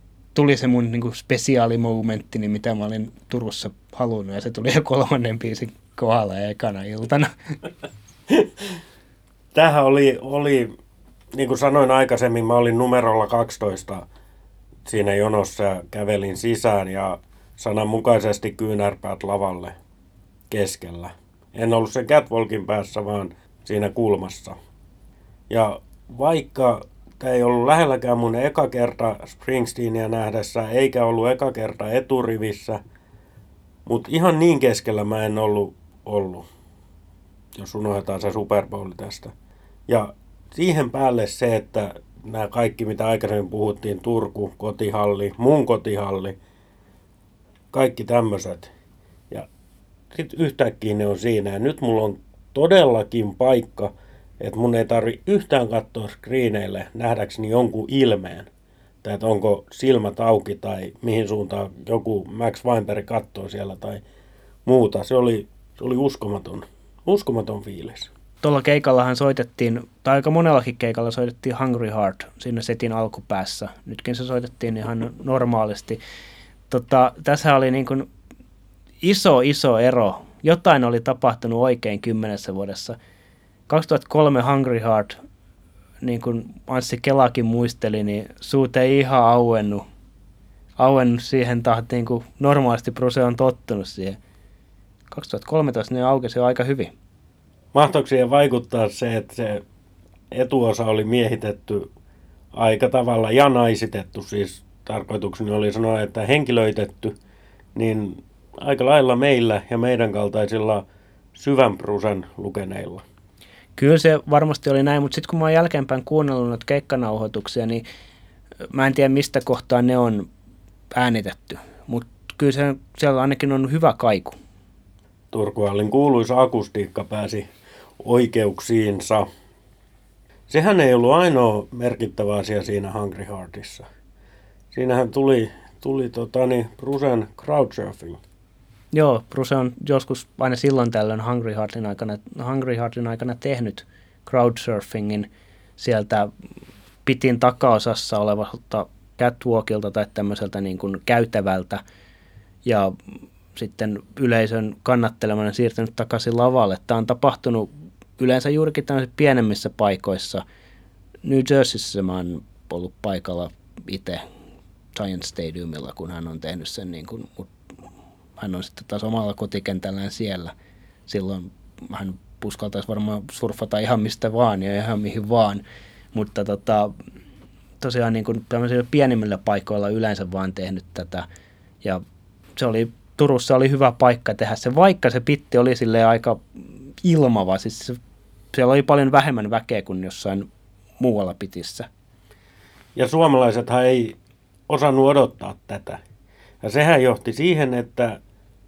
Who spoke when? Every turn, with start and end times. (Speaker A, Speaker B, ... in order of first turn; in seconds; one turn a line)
Speaker A: 0.3-7.3
Speaker B: 8.3-8.7
Speaker B: 9.5-10.7
Speaker B: 11.3-14.1
Speaker B: 14.8-19.8
Speaker B: 20.5-24.6
Speaker B: 25.5-32.8
Speaker B: 33.9-36.5
Speaker B: 37.5-39.3
Speaker B: 39.9-46.4
Speaker B: 47.7-48.7
Speaker B: 50.1-58.5
Speaker B: 59.0-64.0
Speaker B: 64.7-68.1
Speaker A: 68.4-76.0
Speaker A: 76.7-78.1
Speaker A: 79.0-83.0
Speaker A: 83.7-85.2
Speaker A: 86.0-89.8
Speaker A: 90.8-94.2
Speaker A: 95.1-96.9
Speaker B: 97.7-99.6
Speaker B: 100.3-101.9
Speaker B: 102.5-107.2
Speaker B: 107.8-110.8
Speaker B: 111.3-113.0
Speaker A: 113.8-117.8
Speaker A: 118.7-120.3
Speaker A: 120.9-124.3
Speaker B: 125.3-127.5
Speaker B: 128.0-129.3
Speaker B: 130.5-133.8
Speaker B: 134.7-138.2
Speaker A: 138.9-146.3
Speaker A: 147.0-151.8
Speaker A: 152.6-152.9
Speaker A: 153.5-160.4
Speaker A: 161.2-164.2
Speaker A: 164.9-167.5
Speaker A: 168.4-170.5
Speaker A: 171.1-175.6
Speaker A: 176.1-176.9
Speaker A: 177.8-181.2
Speaker A: 182.6-188.0
Speaker A: 188.5-190.4
Speaker A: 191.0-191.9
Speaker B: 192.9-194.2
Speaker B: 194.7-196.0
Speaker B: 196.6-198.2